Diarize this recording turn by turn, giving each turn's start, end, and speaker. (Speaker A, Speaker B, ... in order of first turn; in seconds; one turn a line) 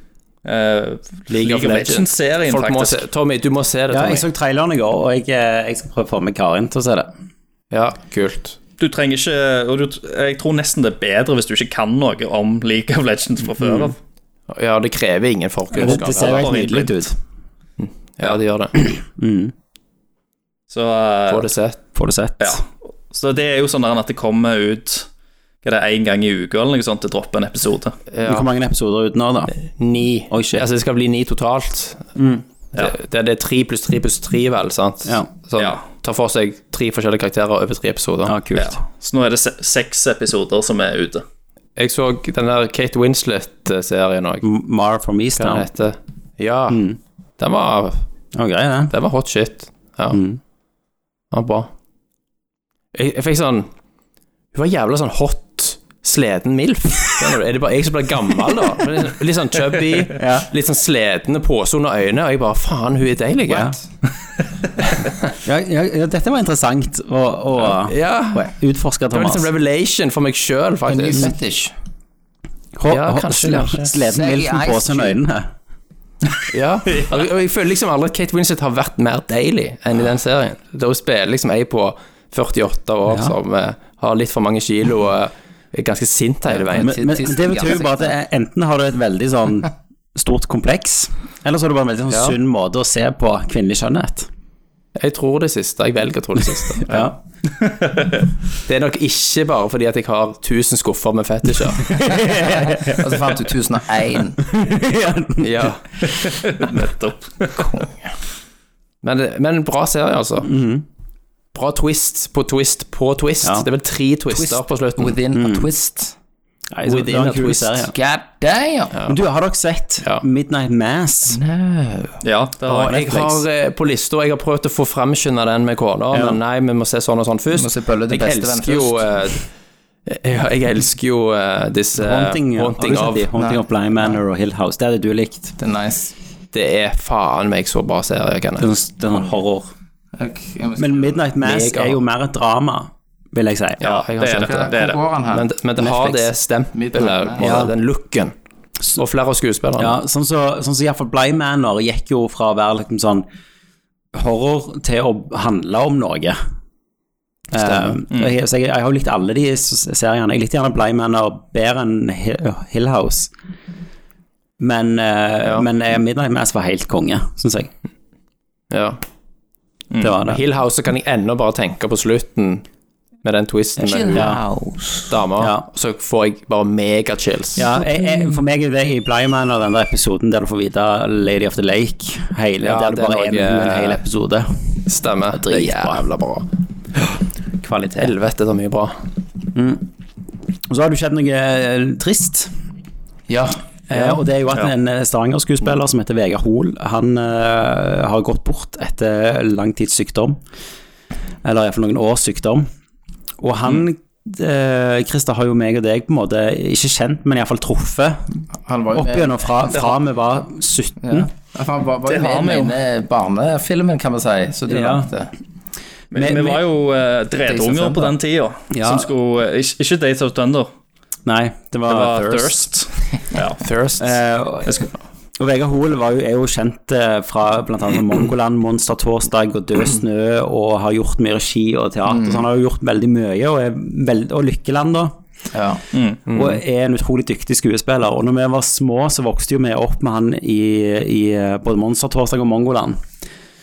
Speaker A: 0.5-3.0
Speaker B: 1.3-4.3
Speaker C: 3.9-7.1
Speaker B: 7.7-8.6
Speaker A: 8.8-14.0
Speaker B: 14.5-16.8
Speaker C: 15.7-17.2
Speaker A: 15.8-17.0
Speaker B: 17.8-18.9
Speaker C: 18.8-19.5
Speaker A: 20.7-21.5
Speaker B: 21.3-21.8
Speaker C: 21.9-22.6
Speaker A: 22.4-25.1
Speaker A: 25.6-27.9
Speaker B: 28.1-28.5
Speaker C: 28.2-29.5
Speaker B: 29.6-32.1
Speaker C: 30.3-30.6
Speaker C: 32.2-32.5
Speaker B: 32.7-38.4
Speaker C: 38.3-38.8
Speaker A: 38.5-41.2
Speaker B: 41.8-44.5
Speaker C: 44.4-45.7
Speaker B: 45.4-46.9
Speaker C: 46.7-47.0
Speaker B: 47.4-48.0
Speaker C: 48.3-48.9
Speaker B: 48.9-50.2
Speaker C: 50.1-50.4
Speaker B: 51.3-51.7
Speaker B: 52.9-53.7
Speaker B: 54.5-63.8
Speaker C: 60.2-60.5
Speaker C: 63.5-63.8
Speaker C: 65.4-69.5
Speaker B: 67.6-68.5
Speaker B: 69.1-71.3
Speaker D: 70.9-71.7
Speaker C: 72.8-75.5
Speaker B: 72.9-73.9
Speaker D: 74.0-75.2
Speaker B: 76.5-87.0
Speaker C: 83.1-83.3
Speaker D: 86.5-88.1
Speaker C: 86.8-94.3
Speaker B: 92.1-92.4
Speaker B: 95.0-97.1
Speaker C: 96.9-97.2
Speaker A: 97.6-98.3
Speaker B: 98.7-101.9
Speaker C: 101.8-103.4
Speaker D: 102.7-104.5
Speaker C: 104.4-105.7
Speaker B: 105.4-105.8
Speaker A: 106.0-107.8
Speaker D: 107.6-107.9
Speaker B: 109.0-110.5
Speaker C: 110.4-110.8
Speaker B: 111.5-115.2
Speaker D: 114.3-116.2
Speaker C: 115.3-115.7
Speaker C: 116.7-117.9
Speaker B: 116.9-117.9
Speaker D: 117.9-118.9
Speaker C: 119.1-121.4
Speaker D: 121.3-122.2
Speaker A: 122.2-123.0
Speaker B: 122.7-129.4
Speaker C: 122.9-123.4
Speaker C: 126.1-126.4
Speaker D: 127.5-129.1
Speaker B: 130.1-133.3
Speaker C: 131.9-135.6
Speaker D: 133.3-134.2
Speaker D: 135.6-136.1
Speaker B: 136.5-138.7
Speaker C: 138.6-139.7
Speaker D: 140.2-141.2
Speaker C: 140.8-143.8
Speaker B: 141.4-142.0
Speaker B: 143.8-144.8
Speaker A: 143.8-145.0
Speaker D: 144.2-145.5
Speaker B: 145.3-148.3
Speaker C: 145.8-146.3
Speaker D: 146.7-147.6
Speaker C: 147.4-147.7
Speaker B: 148.9-150.0
Speaker C: 149.8-153.2
Speaker C: 154.1-156.4
Speaker C: 157.5-163.3
Speaker B: 157.6-158.0
Speaker C: 164.6-167.7
Speaker B: 165.4-165.7
Speaker B: 168.7-169.0
Speaker C: 170.0-170.4
Speaker B: 170.2-172.7
Speaker B: 173.2-174.3
Speaker D: 173.8-175.1
Speaker C: 174.1-174.4
Speaker B: 175.1-177.8
Speaker C: 175.4-175.7
Speaker C: 177.6-184.5
Speaker B: 182.6-184.0
Speaker B: 184.9-186.5
Speaker C: 185.3-186.0
Speaker C: 187.6-188.1
Speaker B: 188.0-189.0
Speaker C: 189.6-189.9
Speaker C: 190.7-192.5
Speaker D: 193.3-193.6
Speaker C: 193.9-200.4
Speaker B: 193.9-194.2
Speaker C: 201.4-202.7
Speaker C: 203.4-208.4
Speaker D: 208.7-209.7
Speaker C: 208.9-211.3
Speaker D: 211.0-215.3
Speaker A: 212.1-212.8
Speaker C: 214.7-215.1
Speaker A: 216.1-220.7
Speaker C: 216.1-216.6
Speaker D: 217.3-218.2
Speaker C: 218.7-219.1
Speaker C: 221.3-222.6
Speaker A: 221.9-223.6
Speaker B: 223.6-224.2
Speaker C: 224.0-235.2
Speaker D: 232.1-232.4
Speaker D: 235.5-235.8
Speaker A: 235.9-236.2
Speaker B: 236.3-236.6
Speaker C: 236.3-243.0